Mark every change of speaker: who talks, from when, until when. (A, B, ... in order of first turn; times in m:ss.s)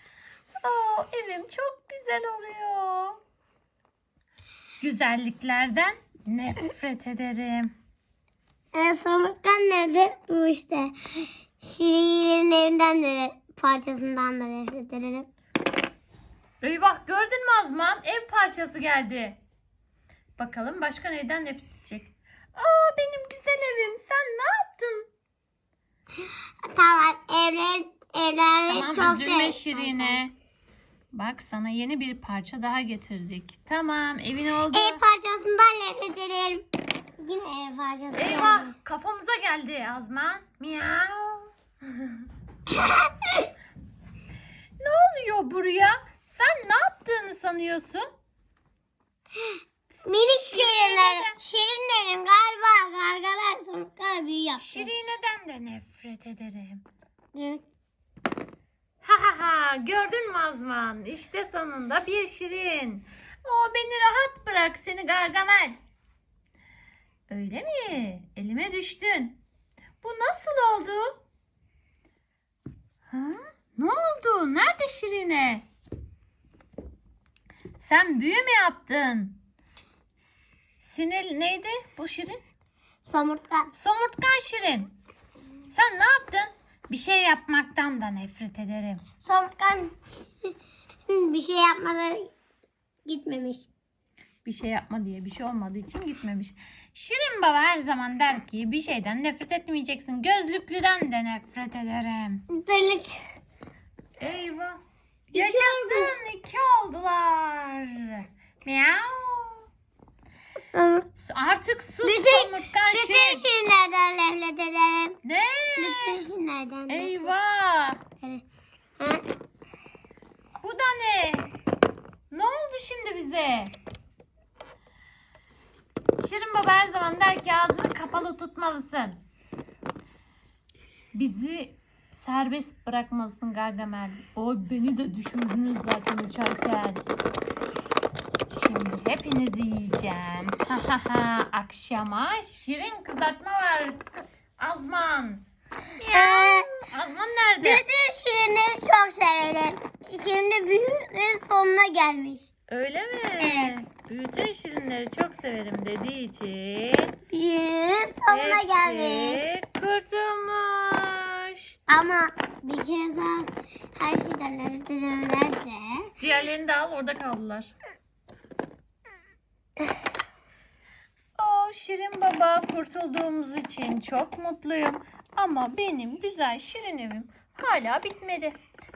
0:00.6-0:03.2 A
0:04.8-0:07.7 A
0:08.7-0:15.3 B
0:16.6-0:19.4 A
0:20.4-0:25.1 A
0:26.6-0:30.2 B
0:28.7-0:30.3 A
0:31.1-0:35.0 A
0:34.7-0:36.7 B
0:37.2-0:38.7 B
0:38.2-0:42.2 A
0:44.8-0:48.1 A
0:50.1-0:54.9 B
0:50.3-0:51.4 A
0:54.6-0:56.8 A
0:57.3-0:57.6 B
0:59.0-1:05.8 A
1:07.3-1:09.4 A
1:10.0-1:11.2 A
1:13.1-1:15.7 A
1:17.8-1:19.4 A
1:20.2-1:22.4 A
1:23.0-1:23.7 B
1:23.7-1:25.0 A
1:25.7-1:29.0 A
1:29.2-1:30.3 B
1:31.1-1:32.3 B
1:33.1-1:33.7 B
1:34.4-1:42.4 A
1:42.5-1:43.1 B
1:44.2-1:44.8 A
1:45.3-1:49.6 A
1:45.3-1:46.1 B
1:50.6-1:51.1 B
1:51.2-1:53.5 A
1:52.0-1:55.2 B
1:55.2-1:56.2 A
1:55.8-1:57.3 B
1:56.9-1:58.0 A
1:59.0-1:59.2 B
2:00.6-2:01.5 A
2:02.3-2:03.7 A
2:06.2-2:09.2 A
2:11.2-2:17.0 A
2:18.5-2:24.0 A
2:24.6-2:25.4 A
2:26.0-2:27.8 A
2:26.1-2:26.7 B
2:27.6-2:32.5 B
2:32.7-2:37.2 A
2:33.4-2:33.8 B
2:37.3-2:39.5 B
2:38.3-2:41.7 A
2:41.9-2:46.1 B
2:46.2-2:47.7 A
2:51.4-2:58.6 A